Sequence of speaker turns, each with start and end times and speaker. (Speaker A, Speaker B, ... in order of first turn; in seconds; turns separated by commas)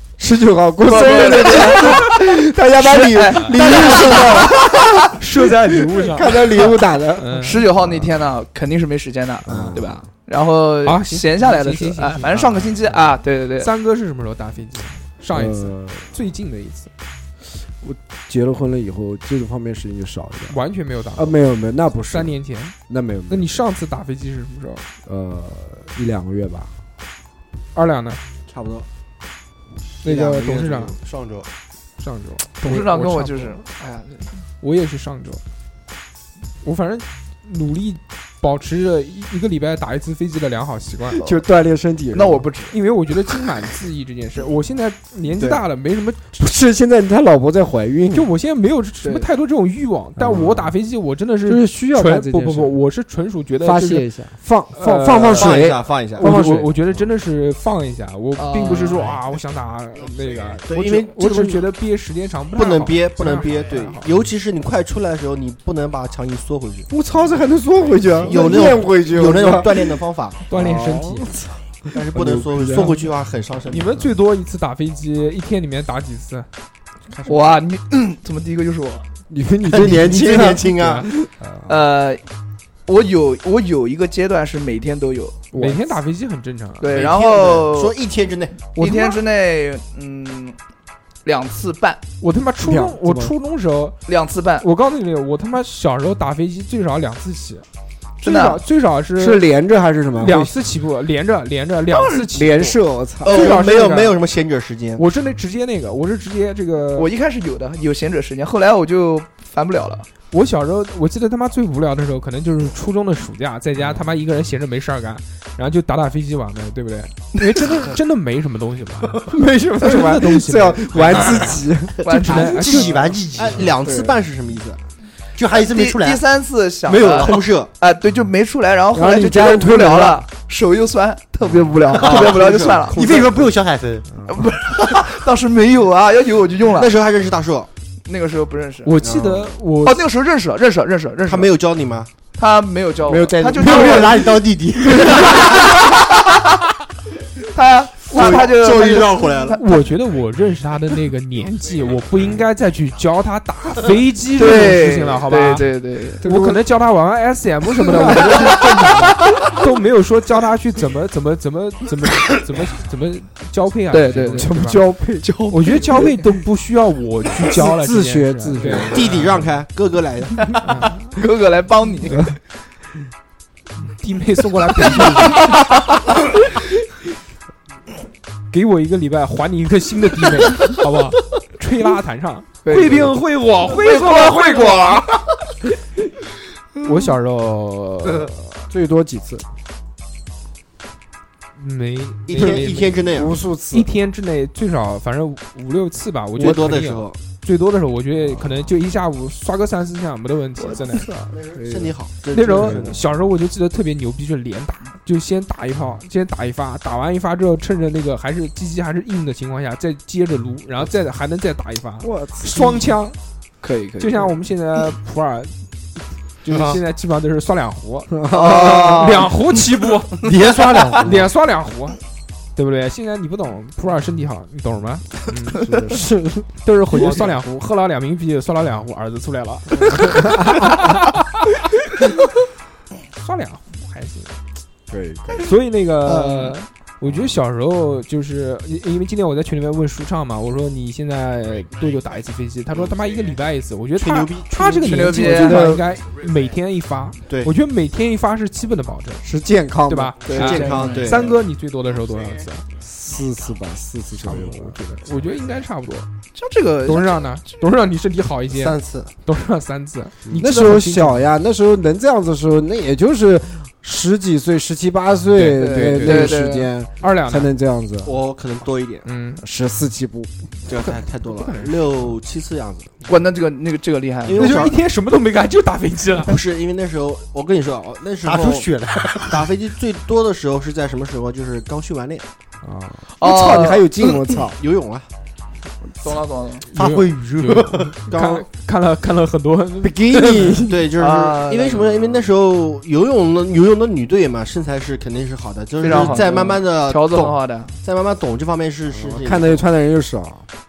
Speaker A: 0.2-8.1, Speaker B: 0.8-4.5, Speaker C: 3.4-4.5, Speaker D: 5.2-7.7, Speaker B: 7.4-13.7, Speaker A: 9.4-10.0, Speaker D: 10.8-13.0, Speaker D: 13.6-16.9, Speaker A: 15.3-16.1, Speaker A: 17.6-20.6, Speaker D: 20.5-21.4, Speaker A: 21.2-22.4, Speaker D: 22.1-22.8, Speaker A: 22.9-23.5, Speaker D: 23.3-24.9, Speaker A: 25.1-26.7, Speaker D: 27.8-28.2, Speaker C: 28.5-28.9, Speaker D: 30.0-31.0, Speaker C: 30.0-31.0, Speaker E: 31.1-31.5, Speaker D: 32.0-33.6, Speaker B: 32.6-34.4, Speaker D: 34.6-35.4, Speaker D: 36.6-41.2, Speaker A: 41.2-42.5, Speaker B: 42.1-42.8, Speaker D: 42.7-46.4, Speaker A: 46.4-48.3, Speaker D: 48.1-54.1, Speaker A: 50.2-50.7, Speaker A: 51.4-52.8, Speaker A: 53.6-56.8, Speaker D: 54.7-55.6, Speaker C: 55.4-56.3, Speaker D: 56.2-64.1, Speaker B: 58.4-59.2, Speaker C: 60.6-61.6, Speaker C: 62.5-66.9, Speaker A: 66.9-73.1, Speaker C: 68.2-70.4, Speaker D: 70.5-71.3, Speaker C: 71.9-74.1, Speaker D: 73.7-76.5, Speaker B: 77.2-79.0, Speaker A: 79.3-81.7, Speaker C: 79.7-81.1, Speaker D: 80.8-81.1, Speaker B: 81.7-82.2, Speaker B: 82.9-85.5, Speaker A: 85.5-86.0, Speaker D: 85.5-86.9, Speaker B: 86.8-88.0, Speaker C: 86.9-88.6, Speaker D: 88.8-89.2, Speaker B: 88.8-90.6, Speaker B: 91.2-92.0, Speaker D: 92.2-94.0, Speaker A: 92.6-93.3, Speaker B: 94.1-94.7, Speaker D: 94.6-97.7, Speaker D: 98.2-99.4, Speaker B: 98.2-98.6, Speaker A: 99.2-100.5, Speaker D: 100.2-104.2, Speaker B: 101.9-102.3, Speaker A: 102.3-103.4, Speaker C: 103.2-105.0, Speaker D: 105.0-107.1, Speaker B: 107.0-110.1, Speaker D: 110.3-123.6, Speaker A: 119.2-122.0, Speaker B: 122.0-122.9, Speaker C: 122.3-124.8, Speaker A: 122.5-122.8, Speaker E: 122.9-123.6, Speaker E: 125.4-126.2, Speaker B: 125.5-133.3, Speaker C: 126.9-127.7, Speaker A: 128.9-130.2, Speaker A: 131.4-132.0, Speaker C: 132.0-133.1, Speaker E: 132.9-134.1, Speaker A: 133.1-133.5, Speaker A: 134.1-134.4, Speaker B: 134.3-136.9, Speaker C: 136.8-137.7, Speaker B: 138.1-138.9, Speaker D: 138.8-140.1, Speaker C: 139.0-139.6, Speaker B: 139.8-141.5, Speaker C: 141.3-142.1, Speaker B: 142.4-144.3, Speaker A: 143.1-144.3, Speaker C: 143.5-145.6, Speaker E: 144.4-144.8, Speaker B: 145.2-145.6, Speaker B: 147.5-149.6, Speaker C: 148.1-149.6, Speaker A: 148.2-148.5, Speaker D: 149.5-164.8, Speaker B: 154.4-156.2, Speaker A: 156.2-156.6, Speaker A: 157.8-159.3, Speaker B: 163.9-164.5, Speaker A: 164.3-165.3, Speaker B: 165.2-166.2, Speaker D: 165.5-169.4, Speaker A: 167.6-169.1, Speaker C: 168.7-170.6, Speaker B: 170.4-172.4, Speaker D: 170.6-171.1, Speaker D: 173.9-175.5, Speaker A: 174.9-175.3, Speaker B: 175.2-175.7, Speaker D: 178.5-185.2, Speaker B: 182.7-185.1, Speaker D: 186.8-188.6, Speaker A: 188.7-189.4, Speaker D: 191.6-193.1, Speaker C: 192.3-193.4, Speaker A: 192.4-193.9, Speaker D: 193.7-201.1, Speaker C: 196.4-197.2, Speaker A: 198.2-198.6, Speaker B: 200.6-201.3, Speaker C: 200.7-203.0, Speaker A: 201.5-203.0, Speaker D: 202.3-213.2, Speaker A: 212.0-213.0, Speaker B: 213.6-214.3, Speaker D: 214.0-215.5, Speaker D: 216.4-220.3, Speaker A: 218.1-219.2, Speaker C: 218.3-219.2, Speaker B: 218.6-218.9, Speaker E: 220.2-221.2, Speaker C: 220.6-221.1, Speaker D: 221.0-222.0, Speaker D: 222.6-225.7, Speaker A: 225.5-227.3, Speaker D: 226.6-231.4, Speaker A: 229.8-230.9, Speaker D: 233.1-234.4, Speaker A: 234.9-235.5, Speaker D: 235.4-249.2, Speaker B: 236.1-236.6, Speaker A: 237.0-237.3, Speaker C: 244.0-244.5, Speaker A: 244.7-245.9, Speaker B: 244.8-245.8, Speaker C: 247.3-247.5, Speaker A: 249.2-250.8, Speaker D: 249.9-252.7, Speaker B: 250.2-251.3, Speaker C: 250.3-251.4, Speaker A: 252.8-254.8, Speaker D: 254.3-256.1, Speaker B: 256.4-257.6, Speaker D: 256.9-261.3, Speaker E: 258.6-259.1, Speaker A: 260.3-268.2, Speaker D: 265.3-266.4, Speaker B: 265.6-266.7, Speaker D: 267.0-267.5, Speaker C: 268.0-269.1, Speaker D: 269.1-269.4, Speaker A: 269.4-270.3, Speaker C: 270.7-272.9, Speaker D: 270.8-271.8, Speaker B: 273.1-274.6, Speaker C: 274.2-274.8, Speaker D: 274.4-276.4, Speaker C: 276.3-282.3, Speaker E: 278.2-279.4, Speaker A: 282.6-284.6, Speaker B: 283.2-284.4, Speaker C: 284.5-285.1, Speaker B: 286.0-286.7, Speaker D: 286.8-290.6, Speaker E: 286.8-287.9, Speaker C: 288.0-288.5, Speaker A: 289.8-290.8, Speaker C: 290.7-299.6, Speaker B: 291.0-291.9, Speaker B: 295.8-297.7, Speaker A: 298.9-300.4